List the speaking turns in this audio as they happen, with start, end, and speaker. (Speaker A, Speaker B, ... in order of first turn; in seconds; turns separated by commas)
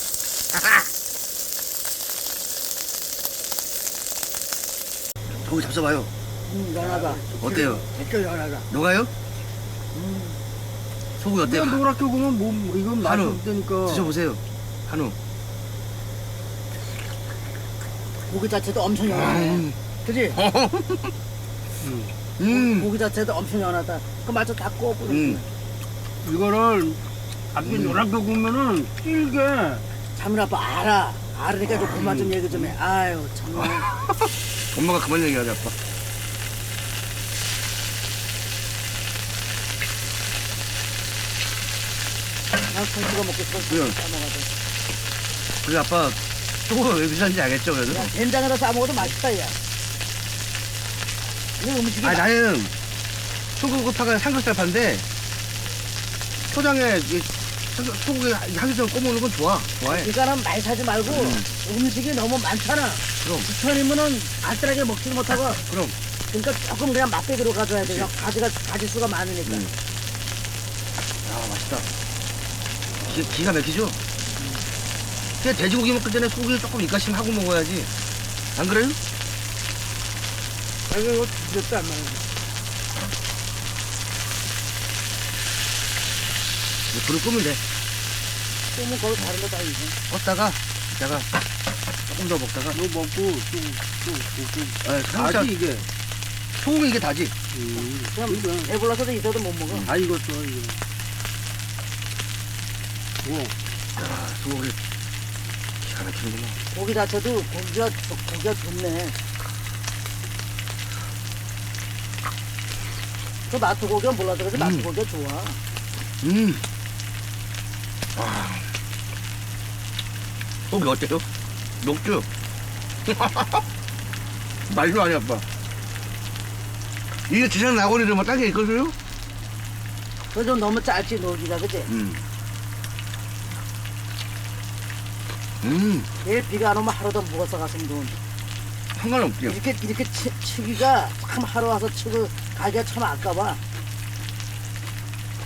Speaker A: 0.5-0.8, Speaker A: 5.4-6.1, Speaker B: 6.4-8.7, Speaker C: 7.0-7.6, Speaker A: 7.4-7.8, Speaker A: 8.7-9.1, Speaker B: 9.9-10.4, Speaker A: 11.2-11.8, Speaker C: 11.4-14.1, Speaker A: 13.0-15.2, Speaker B: 18.3-20.4, Speaker A: 19.1-19.8, Speaker A: 20.4-21.1, Speaker C: 21.8-22.1, Speaker A: 22.4-22.9, Speaker B: 22.4-25.5, Speaker A: 25.1-25.4, Speaker C: 26.2-27.0, Speaker C: 27.5-29.8, Speaker A: 27.6-28.1, Speaker B: 30.1-33.9, Speaker A: 33.6-35.7, Speaker B: 42.6-44.5, Speaker A: 43.7-44.0, Speaker A: 45.6-48.1, Speaker B: 47.9-49.6, Speaker B: 51.6-52.2, Speaker A: 52.0-52.7, Speaker A: 53.5-55.0, Speaker A: 56.5-60.1, Speaker B: 59.8-65.6, Speaker A: 61.0-61.5, Speaker A: 63.2-63.5, Speaker A: 65.7-66.0, Speaker B: 66.3-69.7, Speaker A: 67.8-68.1, Speaker A: 69.5-69.7, Speaker A: 71.2-71.9, Speaker A: 73.0-74.0, Speaker A: 75.4-77.9, Speaker A: 78.5-79.0, Speaker B: 80.9-82.2, Speaker A: 86.9-87.6, Speaker B: 88.7-90.0, Speaker A: 90.1-91.3, Speaker A: 92.1-92.8, Speaker C: 92.7-95.9, Speaker A: 94.8-95.6, Speaker A: 96.6-97.3, Speaker C: 97.5-98.7, Speaker B: 97.7-99.9, Speaker A: 99.7-100.0, Speaker C: 99.9-100.8, Speaker C: 103.2-103.5, Speaker A: 104.0-104.8, Speaker A: 105.8-106.6, Speaker B: 106.7-109.2, Speaker B: 113.5-115.6, Speaker A: 114.5-114.9, Speaker A: 116.2-116.6, Speaker A: 118.1-118.7, Speaker A: 120.7-121.3, Speaker A: 121.8-122.3, Speaker A: 123.0-123.6, Speaker A: 124.7-125.5, Speaker A: 127.3-128.9, Speaker B: 130.3-131.9, Speaker A: 131.9-132.2, Speaker A: 135.6-136.1, Speaker B: 136.2-138.2, Speaker A: 138.9-139.6, Speaker B: 139.4-143.6